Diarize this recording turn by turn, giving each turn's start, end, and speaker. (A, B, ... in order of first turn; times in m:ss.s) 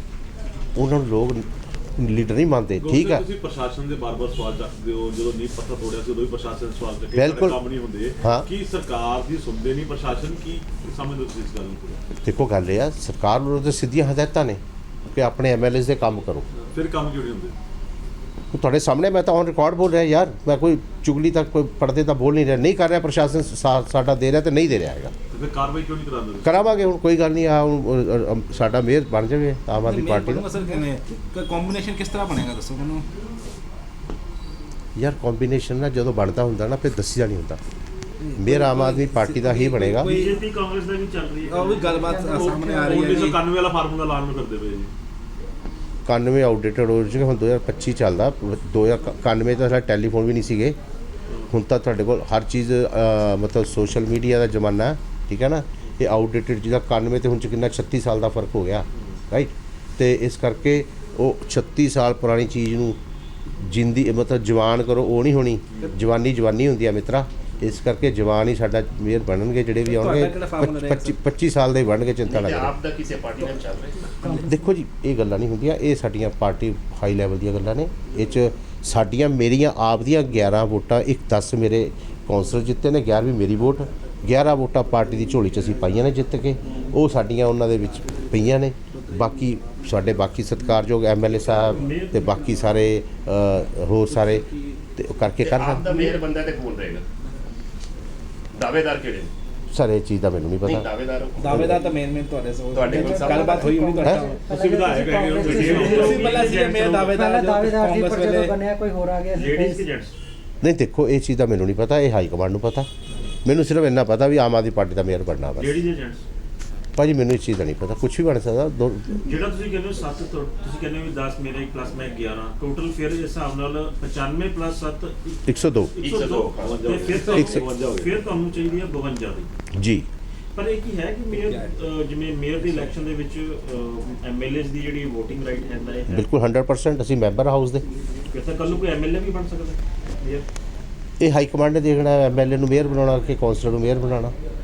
0:00.7-0:03.2 A
0:02.8-0:12.0 B
0:07.1-0:07.6 A
0:08.2-0:08.5 A
0:12.2-0:16.5 A
0:16.6-0:17.6 B
0:18.5-0:25.1 A
0:25.3-0:26.6 B
0:26.4-0:30.5 A
0:29.8-0:33.0 C
0:35.0-0:37.6 A
0:38.2-0:40.4 C
0:38.4-0:40.1 A
0:40.0-0:42.2 D
0:41.5-0:43.4 C
0:42.0-0:43.3 E
0:42.4-0:44.9 B
0:46.0-0:50.8 A
0:51.5-1:03.0 A
1:03.6-1:12.8 A
1:09.8-1:11.2 C
1:12.9-1:13.2 F
1:14.3-1:34.4 A
1:31.5-1:32.6 D
1:35.0-1:36.2 A
1:35.6-1:37.0 F
1:38.7-1:39.3 F
1:39.7-1:40.9 A
1:40.8-1:41.3 F
1:41.4-1:44.4 C
1:41.5-1:41.8 A
1:42.7-1:43.4 B
1:42.8-1:43.4 F
1:42.9-1:49.8 E
1:44.5-1:46.2 B
1:45.4-1:47.2 D
1:45.8-1:48.6 C
1:49.3-1:50.1 D
1:50.6-1:52.9 A
1:53.4-1:55.8 A
1:55.6-1:56.2 D
1:57.0-1:59.3 A
1:59.2-2:09.5 D
2:05.5-2:05.9 A
2:06.0-2:08.2 B
2:07.3-2:07.6 A
2:09.7-2:10.0 A
2:10.5-2:16.2 D
2:11.3-2:11.7 C
2:16.1-2:17.8 A
2:18.3-2:20.4 D
2:21.2-2:24.3 A